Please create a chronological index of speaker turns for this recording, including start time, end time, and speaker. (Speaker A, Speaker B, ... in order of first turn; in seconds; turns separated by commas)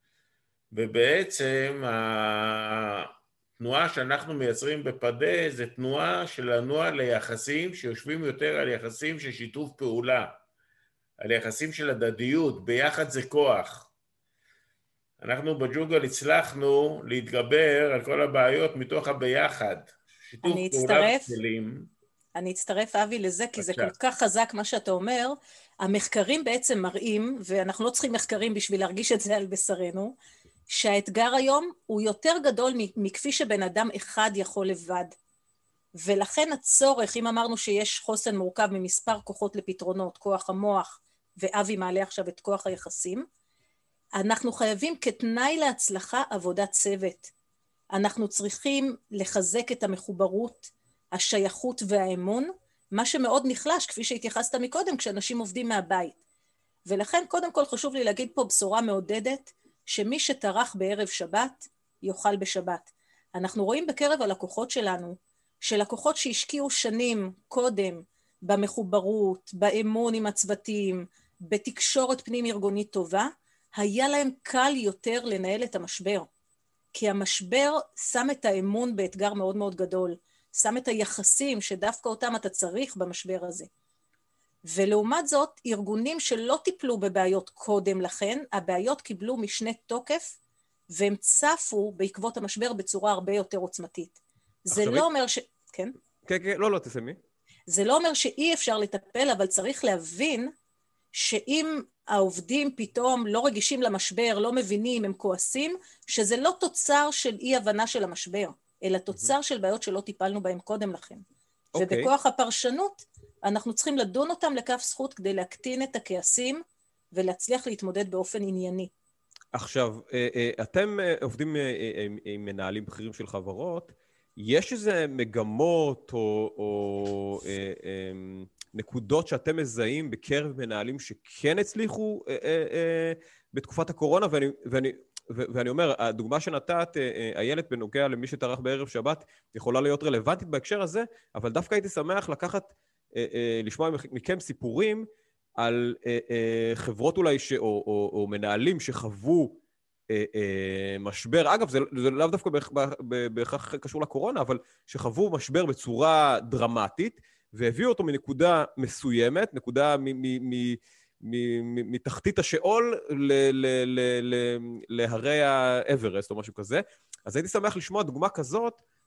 Speaker A: 0.7-10.4, Speaker A: 11.2-13.9, Speaker A: 15.2-21.9, Speaker B: 20.4-21.3, Speaker B: 22.4-30.1, Speaker A: 23.6-23.9, Speaker B: 30.7-35.1, Speaker B: 36.0-43.3, Speaker B: 44.2-47.3, Speaker B: 47.9-56.2, Speaker B: 56.9-76.3, Speaker B: 76.9-83.7, Speaker B: 84.7-90.4, Speaker B: 90.9-94.2, Speaker B: 94.7-95.9, Speaker C: 94.7-95.0, Speaker C: 96.2-97.2, Speaker B: 97.7-100.5, Speaker B: 101.2-111.2, Speaker C: 111.7-112.1, Speaker B: 111.8-116.6, Speaker B: 117.1-118.9, Speaker C: 119.5-145.1, Speaker C: 145.6-149.6, Speaker C: 150.1-168.8